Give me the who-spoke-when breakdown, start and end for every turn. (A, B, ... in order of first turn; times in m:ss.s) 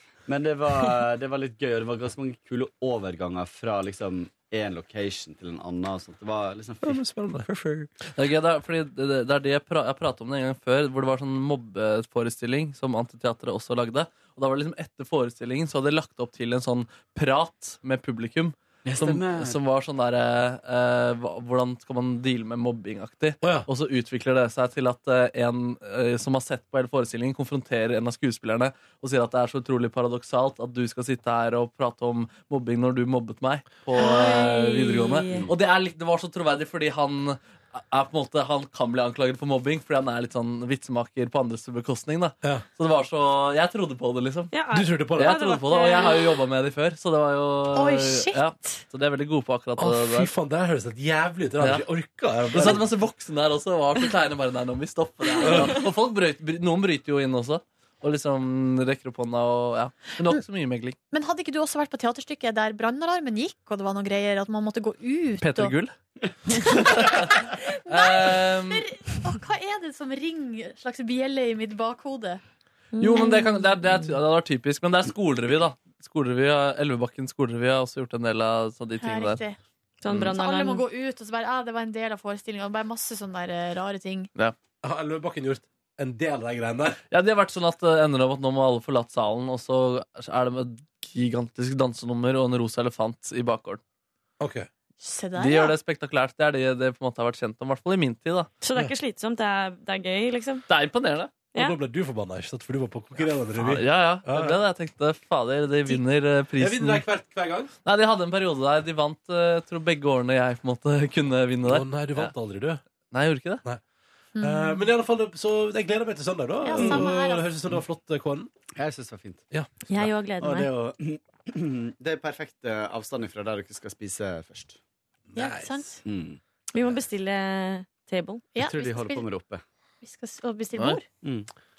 0:00.2-0:07.0 A
0:06.8-0:07.9 B
0:08.1-0:44.5 C
0:18.8-0:19.6 A
0:23.4-0:23.7 B
0:33.9-0:35.5 D
0:44.5-0:46.4 D
0:44.7-0:45.4 B
0:45.2-0:50.3 C
0:47.7-0:48.8 E
0:49.8-0:52.9 B
0:52.5-1:01.0 C
1:01.1-1:05.7 E
1:05.4-1:05.9 C
1:06.6-1:08.9 C
1:07.3-1:12.4 E
1:12.9-1:13.6 D
1:13.0-1:19.4 C
1:19.0-1:19.6 E
1:20.0-1:20.8 D
1:20.3-1:24.3 E
1:24.8-1:27.0 B
1:27.1-1:33.8 C
1:34.4-1:34.7 B
1:35.0-1:35.7 E
1:35.4-1:38.5 C
1:38.6-1:40.6 D
1:40.7-1:41.3 C
1:41.5-1:44.6 B
1:43.6-1:47.0 C
1:46.6-1:47.7 B
1:47.8-1:52.3 C
1:51.6-1:52.8 B
1:53.1-1:53.6 C
1:54.3-1:54.9 E
1:54.4-1:58.5 B
1:56.6-1:57.4 E
1:56.8-1:57.0 A
1:58.8-1:59.4 A
1:59.5-2:00.1 B
1:59.9-2:00.7 D
2:00.4-2:04.8 A
2:05.3-2:05.8 B
2:05.3-2:06.0 E
2:06.0-2:06.4 A
2:06.7-2:08.5 D
2:08.5-2:09.2 E
2:08.6-2:09.6 A
2:10.0-2:11.0 E
2:11.2-2:11.5 A